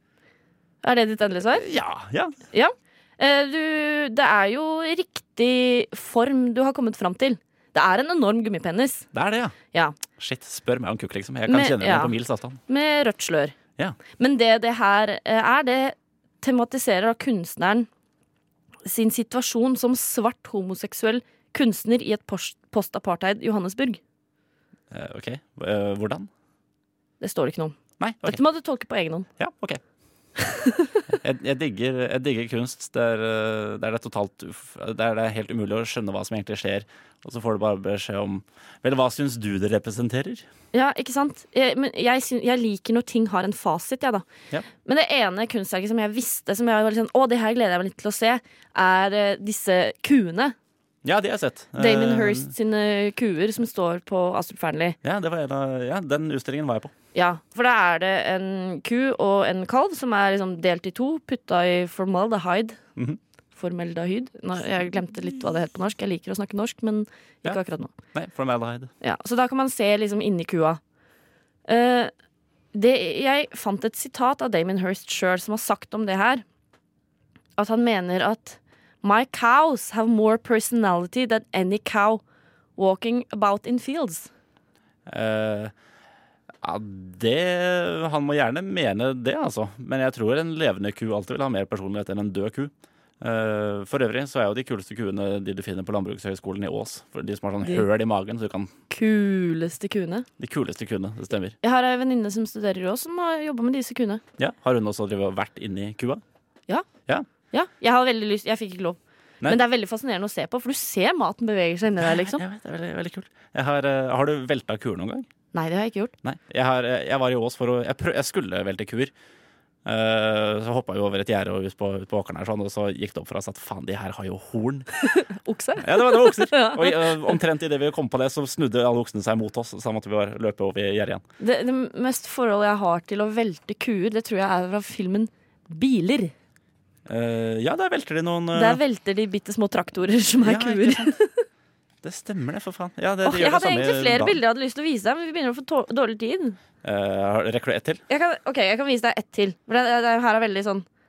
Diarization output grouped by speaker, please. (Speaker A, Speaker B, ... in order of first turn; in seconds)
Speaker A: 0.8-1.7, 2.5-9.1, 11.5-12.1, 12.7-13.5, 14.2-17.9, 18.9-24.0, 27.2-29.3, 30.4-31.0, 40.7-44.2, 44.8-50.5, 51.8-55.0, 57.1-62.8, 63.5-67.9, 69.0-70.8, 71.7-72.1, 72.7-76.4, 77.6-82.2, 82.8-84.3, 98.9-100.3, 101.6-104.2, 107.5-112.4, 115.5-116.1, 125.0-127.4, 131.4-136.3, 138.5-141.4, 143.2-146.6, 148.1-150.9
Speaker B: 1.5-2.3, 9.1-9.6, 10.1-12.6, 24.9-26.3, 28.0-28.4, 29.4-29.8, 31.1-40.5, 51.0-52.5, 55.0-56.9, 68.1-68.9, 85.1-85.7, 86.6-98.7, 100.4-101.5, 104.4-106.2, 112.0-115.3, 116.2-119.1, 119.8-124.9, 125.8-131.2, 137.1-138.8, 140.4-141.1, 142.0-144.4, 146.8-148.0